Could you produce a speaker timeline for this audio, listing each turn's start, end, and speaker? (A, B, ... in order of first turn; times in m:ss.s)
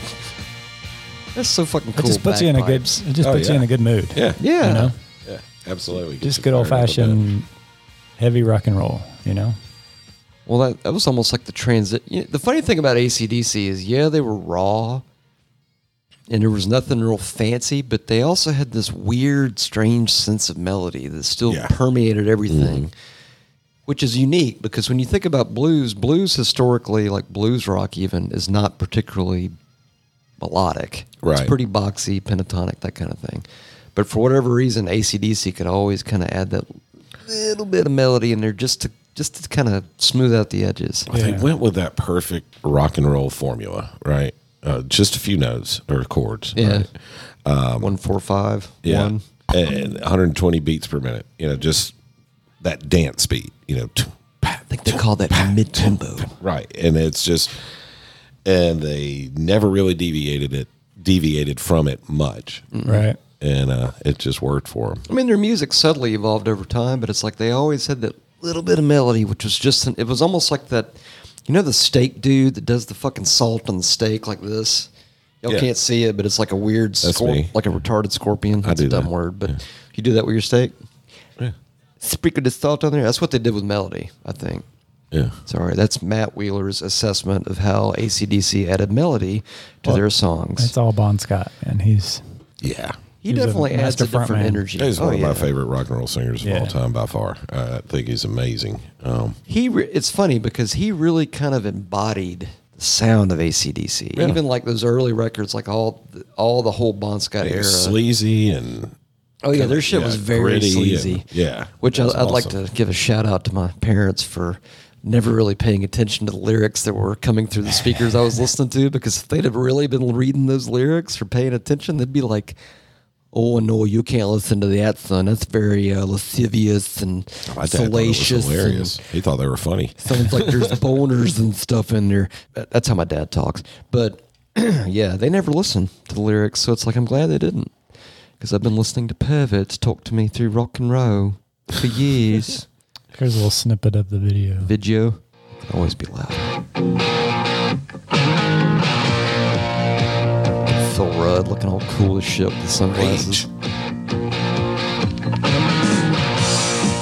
0:01.4-0:03.0 A
0:02.0-0:05.0 B
0:03.2-0:04.4 C
0:04.4-0:04.9 A
0:05.2-0:07.2 C
0:06.2-0:07.5 B
0:08.2-0:09.6 B
0:10.5-0:15.0 A
0:16.3-0:22.9 A
0:21.5-0:21.8 C
0:22.5-0:22.9 C
0:23.9-0:29.6 A
0:30.4-0:41.1 A
0:31.2-0:31.5 C
0:41.1-0:46.9 C
0:41.1-0:41.5 B
0:46.6-0:46.9 A
0:47.4-0:47.9 C
0:47.8-0:49.2 A
0:48.8-0:52.0 C
0:52.6-0:57.6 C
0:54.7-0:56.4 A
0:58.4-1:02.7 C
1:02.7-1:03.1 A
1:02.8-1:03.2 B
1:03.4-1:05.1 C
1:05.1-1:14.9 A
1:15.4-1:20.8 A
1:17.0-1:17.5 C
1:18.6-1:19.6 C
1:22.0-1:24.7 A
1:25.1-1:25.4 C
1:25.5-1:30.7 A
1:30.6-1:32.2 B
1:32.6-1:33.0 C
1:33.2-1:35.5 A
1:33.3-1:34.6 B
1:34.8-1:39.4 C
1:36.4-1:36.8 B
1:39.5-1:48.0 A
1:44.2-1:44.4 C
1:47.4-1:49.0 C
1:49.4-2:02.6 A
1:49.5-1:52.6 C
2:03.3-2:09.0 A
2:07.5-2:10.8 C
2:10.0-2:17.7 A
2:18.4-2:22.7 A
2:23.1-2:24.7 B
2:24.6-2:26.5 A
2:30.7-2:33.5 A
2:32.9-2:33.5 C